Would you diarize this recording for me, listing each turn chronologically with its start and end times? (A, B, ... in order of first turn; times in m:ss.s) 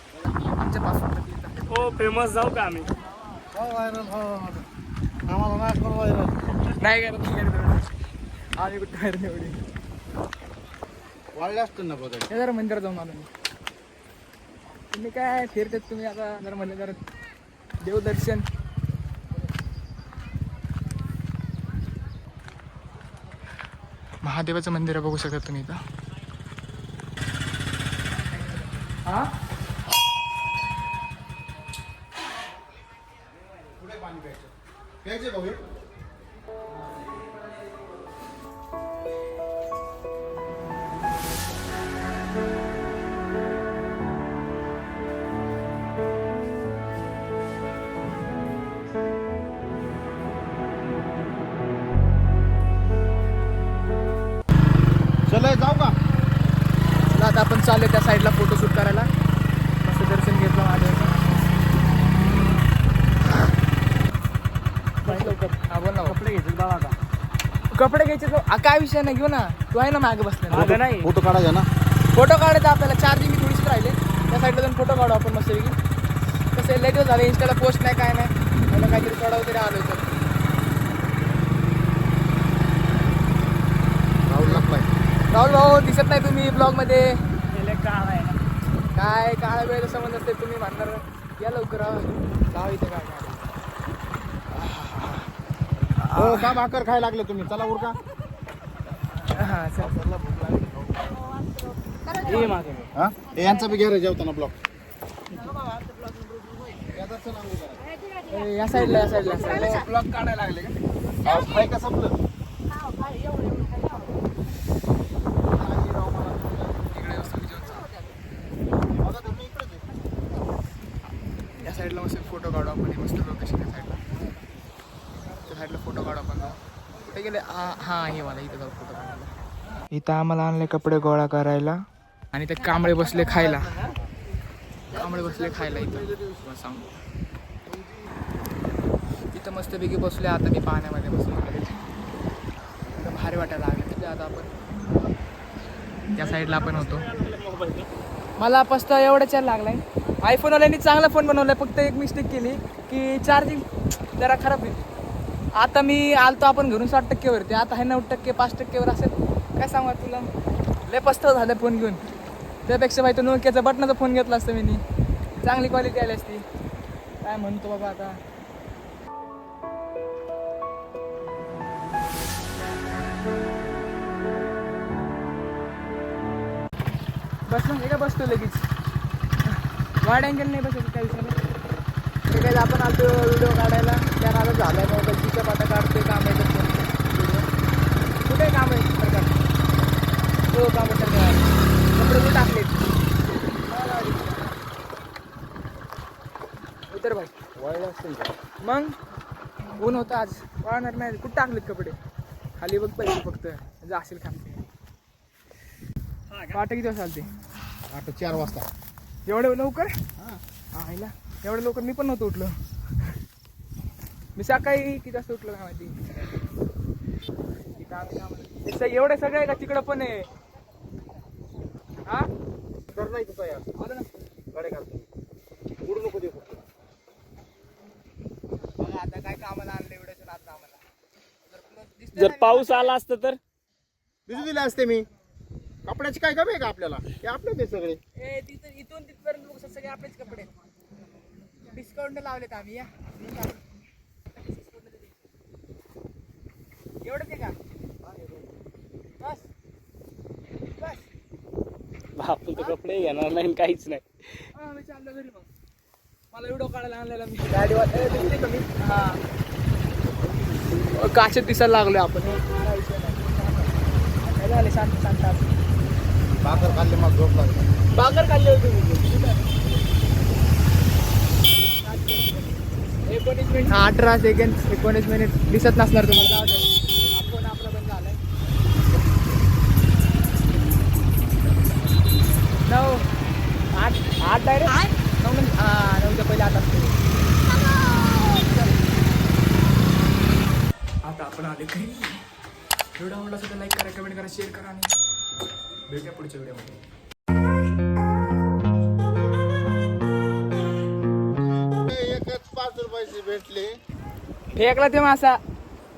0:00.4-0:02.0 A
0:01.7-0:02.9 B
0:03.5-0:04.6 C
0:05.3-0:06.4 C
0:06.8-0:07.9 A
0:08.6-0:09.6 A
0:11.3-0:12.3 C
0:12.3-0:13.3 A
0:14.9-0:17.0 A
0:17.8-0:18.4 A
0:24.2-0:25.8 A
0:29.0-0:29.3 A
0:33.7-0:34.5 C
0:35.0-0:35.6 C
0:55.2-0:56.0 C
0:57.0-0:59.1 A
0:59.8-1:01.1 A
1:05.0-1:05.5 B
1:05.0-1:06.2 A
1:06.0-1:07.0 B
1:07.7-1:10.7 A
1:10.5-1:11.1 B
1:10.5-1:11.7 C
1:12.1-1:15.8 A
1:16.5-1:20.1 A
1:24.3-1:24.9 C
1:24.4-1:24.6 A
1:25.3-1:27.2 A
1:27.5-1:28.4 B
1:28.9-1:33.5 A
1:34.5-1:35.3 A
1:36.0-1:36.6 A
1:36.2-1:38.0 C
1:39.2-1:39.9 A
1:39.8-1:41.2 C
1:42.1-1:42.9 B
1:42.9-1:44.6 C
1:46.8-1:47.8 C
1:48.3-1:50.7 A
1:49.4-1:49.8 C
1:51.2-1:52.2 C
1:55.4-1:57.2 C
1:56.9-1:57.9 A
1:58.8-1:59.9 C
2:01.5-2:04.0 A
2:05.5-2:09.3 A
2:09.9-2:11.8 A
2:12.3-2:13.8 A
2:14.9-2:16.3 C
2:14.9-2:17.0 A
2:19.3-2:21.8 A
2:22.9-2:24.5 A
2:26.1-2:27.0 A
2:26.2-2:27.9 B
2:28.4-2:33.6 A
2:34.2-2:34.8 A
2:35.6-2:40.3 A
2:40.8-2:42.0 A
2:42.6-2:44.8 A
2:45.4-2:46.4 A
2:47.2-2:48.2 A
2:57.5-2:58.6 A
2:59.4-3:01.3 A
3:02.3-3:07.4 A
3:08.2-3:09.4 A
3:10.5-3:12.9 A
3:13.7-3:14.5 A
3:16.9-3:17.3 A
3:17.6-3:18.3 C
3:18.6-3:18.9 A
3:19.8-3:22.0 A
3:22.6-3:24.6 A
3:26.3-3:26.6 B
3:26.5-3:27.3 A
3:27.9-3:28.7 C
3:29.2-3:29.9 A
3:30.7-3:33.1 A
3:34.4-3:36.0 A
3:37.8-3:40.3 A
3:42.9-3:43.6 C
3:43.8-3:44.1 A
3:44.5-3:45.0 C
3:45.8-3:46.6 C
3:48.8-3:50.8 A
3:51.5-3:53.0 A
3:52.1-3:53.4 B
3:54.3-3:55.0 C
3:55.8-3:58.0 C
3:58.2-4:00.5 A
4:01.7-4:03.6 A
4:07.0-4:07.6 A
4:12.2-4:14.0 B
4:14.5-4:15.5 A
4:16.3-4:19.2 A
4:20.4-4:20.8 B
4:20.9-4:23.7 A
4:24.2-4:25.5 A
4:26.4-4:27.7 C
4:27.9-4:29.4 A
4:31.8-4:32.5 A
4:33.0-4:38.2 A
4:42.6-4:43.1 A
4:43.7-4:47.0 A
4:51.0-4:52.2 A
4:53.0-4:54.9 A
4:55.9-4:56.8 A
5:01.7-5:03.7 C
5:04.5-5:05.4 A